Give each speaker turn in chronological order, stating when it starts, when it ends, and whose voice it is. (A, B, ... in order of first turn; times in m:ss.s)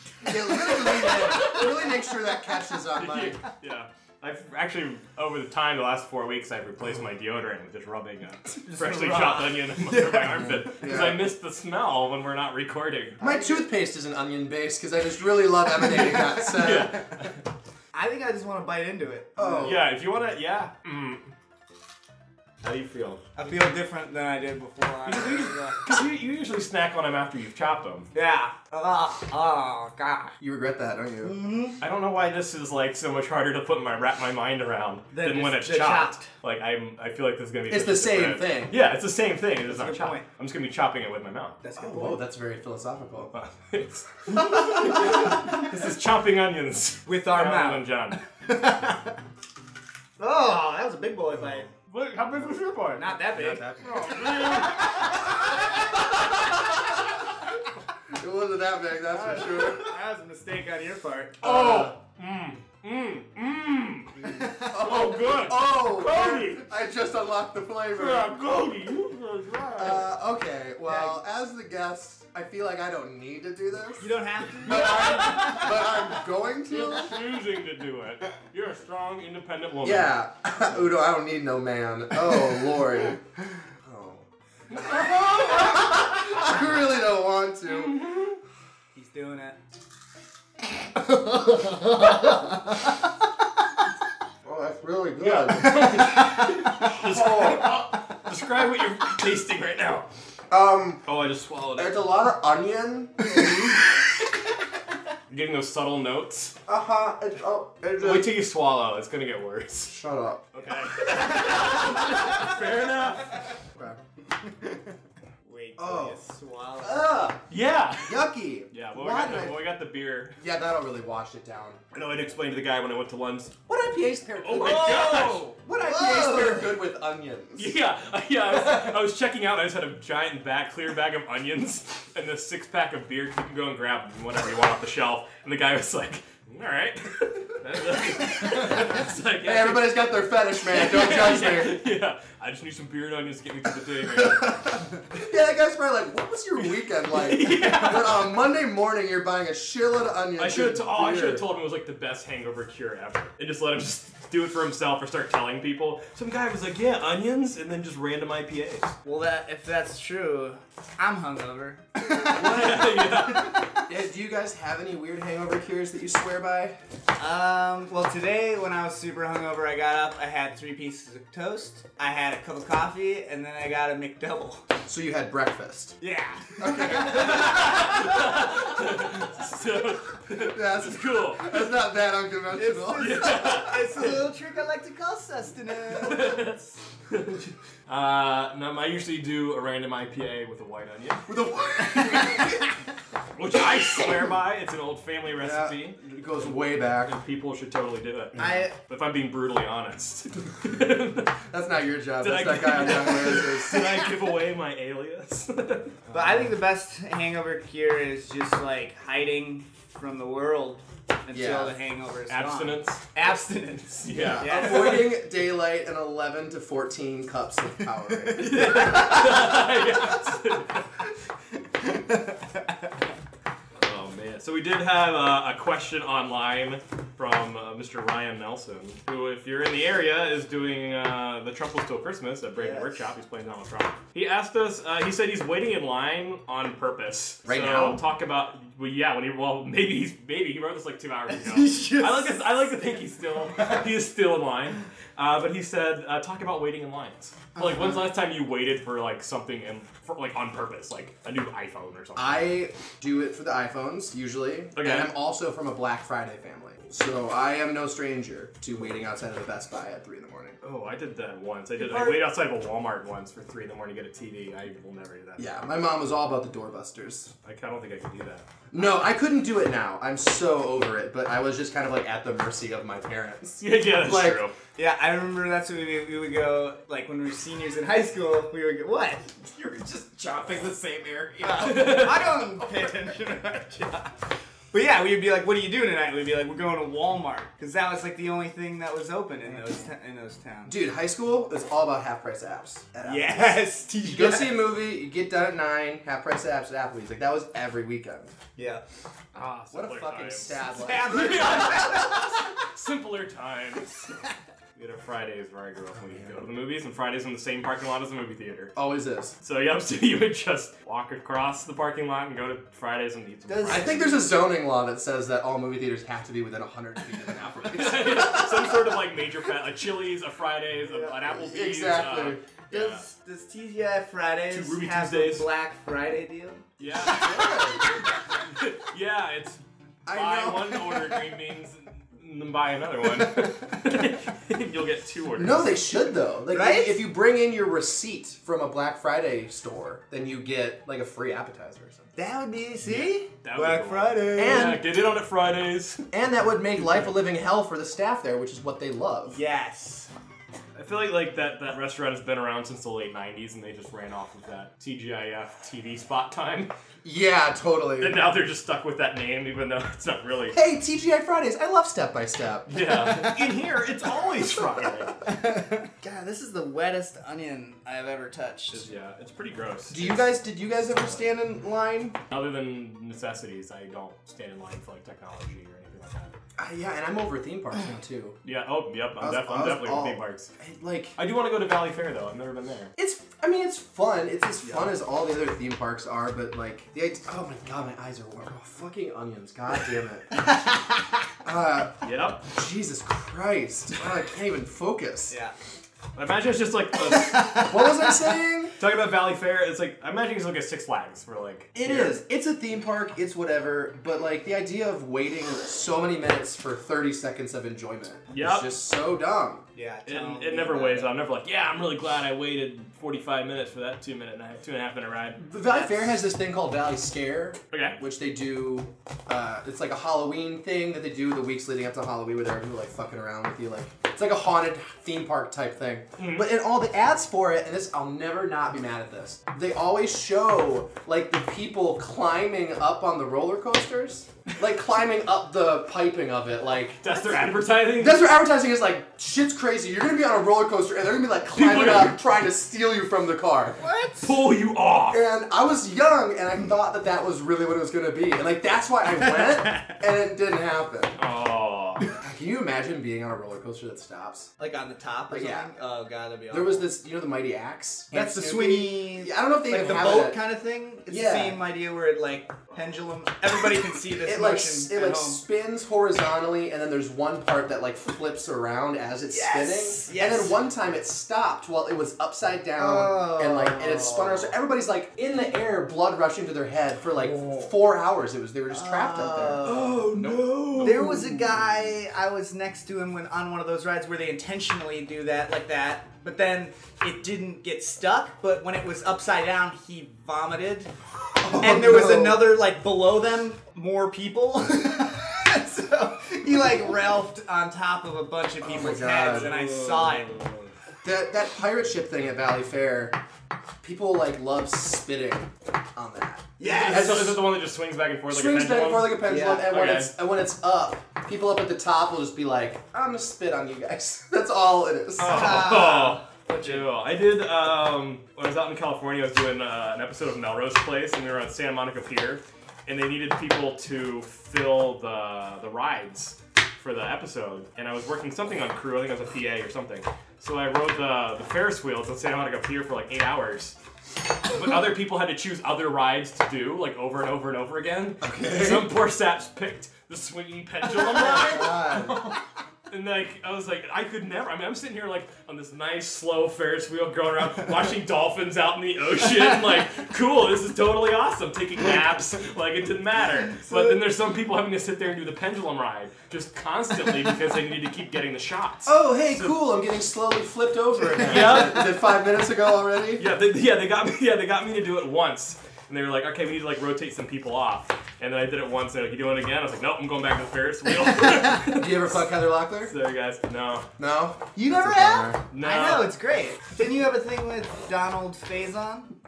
0:00.2-0:03.4 A
0:00.2-0:01.6 B
0:01.0-0:01.9 C
0:03.0-0:13.2 C
0:08.6-0:10.7 B
0:10.4-0:11.2 A
0:13.2-0:17.0 A
0:13.2-0:13.5 B
0:16.4-0:17.4 C
0:17.9-0:19.8 B
0:19.4-0:19.9 A
0:19.6-0:21.3 C
0:22.6-0:23.2 C
0:23.4-0:25.8 B
0:25.1-0:28.1 C
0:28.1-0:30.3 B
0:30.4-0:31.3 A
0:31.2-0:31.8 B
0:31.8-0:41.6 C
0:35.1-0:36.3 B
0:37.7-0:38.8 A
0:39.6-0:40.3 B
0:41.6-0:42.2 B
0:41.8-0:43.3 A
0:43.3-0:48.2 C
0:47.0-0:49.2 B
0:50.2-0:51.7 B
0:51.8-0:53.1 C
0:53.0-0:53.7 B
0:53.3-0:55.1 A
0:53.8-0:56.7 C
0:54.4-0:55.8 B
0:58.1-0:59.9 A
0:59.1-1:01.5 B
1:01.4-1:02.0 A
1:01.4-1:06.6 C
1:04.2-1:04.7 B
1:04.4-1:08.4 A
1:07.9-1:10.1 C
1:09.8-1:17.2 A
1:10.9-1:11.2 B
1:14.0-1:15.6 B
1:14.7-1:16.1 C
1:16.7-1:20.1 C
1:19.8-1:23.2 A
1:23.8-1:28.0 A
1:24.8-1:25.5 C
1:27.8-1:28.4 C
1:29.0-1:29.6 B
1:31.0-1:33.0 A
1:34.4-1:37.9 A
1:35.2-1:40.1 C
1:40.5-1:41.1 A
1:41.1-1:42.0 C
1:41.8-1:43.8 A
1:45.3-1:46.5 C
1:46.7-1:48.3 A
1:48.0-1:49.9 C
1:49.9-1:50.6 A
1:50.5-1:53.5 C
1:51.1-1:52.3 B
1:53.8-1:54.0 A
1:54.4-1:54.9 B
1:55.4-1:57.2 B
1:55.8-1:56.2 A
1:56.8-1:57.4 A
1:57.5-2:00.4 C
1:58.0-1:59.6 A
2:00.4-2:01.8 A
2:01.9-2:03.5 C
2:03.7-2:07.8 A
2:04.4-2:05.5 C
2:04.5-2:06.8 B
2:07.6-2:24.6 C
2:08.5-2:09.0 A
2:18.3-2:21.8 A
2:24.1-2:31.5 A
2:27.1-2:28.3 C
2:30.4-2:38.9 C
2:39.0-2:42.7 B
2:42.3-2:43.5 C
2:42.3-2:46.8 A
2:47.2-2:54.6 B
2:54.8-2:56.0 A
2:56.0-2:58.0 B
2:56.6-2:57.8 A
2:56.9-3:01.6 C
3:00.3-3:03.5 A
3:02.5-3:06.6 B
3:03.0-3:04.2 C
3:05.9-3:11.3 C
3:11.3-3:12.6 A
3:13.4-3:21.4 C
3:15.4-3:17.2 A
3:18.4-3:18.8 B
3:21.5-3:24.0 A
3:22.2-3:26.0 C
3:26.1-3:26.4 A
3:26.1-3:35.0 B
3:31.3-3:31.7 A
3:32.3-3:33.1 C
3:34.0-3:35.0 C
3:34.1-3:39.2 A
3:38.2-3:39.6 B
3:38.3-3:40.9 C
3:41.8-3:42.9 B
3:43.8-4:12.4 C
3:52.6-3:53.0 B
3:57.4-3:58.0 A
4:01.3-4:02.9 B
4:07.6-4:08.1 A
4:12.2-4:20.6 A
4:14.8-4:15.1 C
4:20.6-4:25.6 C
4:21.8-4:22.3 B
4:25.4-4:27.3 A
4:27.4-4:28.4 C
4:28.7-4:34.4 A
4:33.6-4:34.5 C
4:34.8-4:39.3 B
4:39.4-4:42.9 A
4:41.4-4:44.1 B
4:41.6-4:42.4 C
4:44.7-4:50.8 B
4:50.7-4:58.3 A
4:53.0-4:54.7 B
4:58.6-4:58.8 B
4:59.3-5:04.0 C
4:59.7-5:01.7 A
5:00.7-5:02.5 B
5:04.8-5:08.7 C
5:06.1-5:06.3 A
5:08.8-5:09.4 A
5:09.4-5:14.1 C
5:13.5-5:14.2 B
5:13.6-5:18.9 A
5:17.6-5:23.0 C
5:20.9-5:21.3 B
5:21.3-5:22.4 A
5:22.7-5:26.6 B
5:24.5-5:25.5 C
5:26.8-5:35.9 C
5:27.0-5:27.9 A
5:30.1-5:31.2 A
5:35.4-5:42.1 A
5:36.5-5:37.0 B
5:42.2-5:44.8 B
5:42.8-5:46.0 C
5:44.4-5:44.9 A
5:46.1-5:49.4 A
5:49.3-5:50.1 B
5:50.8-5:56.7 C
5:57.0-5:58.2 A
5:58.0-6:00.6 C
6:00.5-6:02.8 A
6:02.7-6:05.2 C
6:05.2-6:08.9 B
6:08.7-6:10.2 C
6:09.9-6:12.2 A
6:12.3-6:16.4 C
6:16.6-6:18.4 A
6:18.4-6:20.5 C
6:19.2-6:21.1 A
6:21.2-6:22.9 C
6:23.0-6:30.4 A
6:24.6-6:24.9 C
6:31.4-6:35.3 A
6:32.0-6:32.5 C
6:36.1-6:38.1 C
6:37.6-6:38.8 A
6:38.8-6:42.2 C
6:41.8-6:49.6 A
6:48.3-6:48.7 C
6:49.8-6:51.1 B
6:50.1-6:55.4 C
6:55.4-7:17.0 A
6:57.7-6:58.0 C
7:06.2-7:06.5 C
7:17.0-7:18.2 C
7:18.0-7:23.8 A
7:21.5-7:22.2 C
7:23.8-7:24.4 B
7:24.2-7:25.2 C
7:25.1-7:31.2 A
7:31.2-7:32.1 C
7:32.2-7:34.5 A
7:34.6-7:36.9 B
7:35.3-7:35.7 A
7:36.5-7:40.4 A
7:38.1-7:45.4 B
7:41.1-7:41.6 A
7:44.2-8:01.5 A
7:49.3-7:50.6 B
7:52.8-7:54.5 B
7:58.7-7:59.9 B
7:59.6-8:01.1 C
8:00.8-8:10.9 B
8:11.4-8:12.5 A
8:11.5-8:20.4 B
8:18.6-8:19.5 A
8:19.3-8:20.5 C
8:21.0-8:23.2 A
8:23.8-8:27.4 A
8:26.6-8:27.4 B
8:26.6-8:30.1 C
8:28.3-8:35.7 A
8:29.2-8:29.7 B
8:35.2-8:53.8 C
8:35.2-8:36.9 B
8:54.4-9:19.6 C
8:58.2-8:58.9 A
9:01.0-9:02.3 A
9:18.9-9:23.2 A
9:21.2-9:22.0 C
9:23.2-9:32.3 C
9:31.7-9:32.9 A
9:32.8-9:33.9 C
9:34.0-9:35.4 A
9:34.6-9:39.1 B
9:35.5-9:36.1 C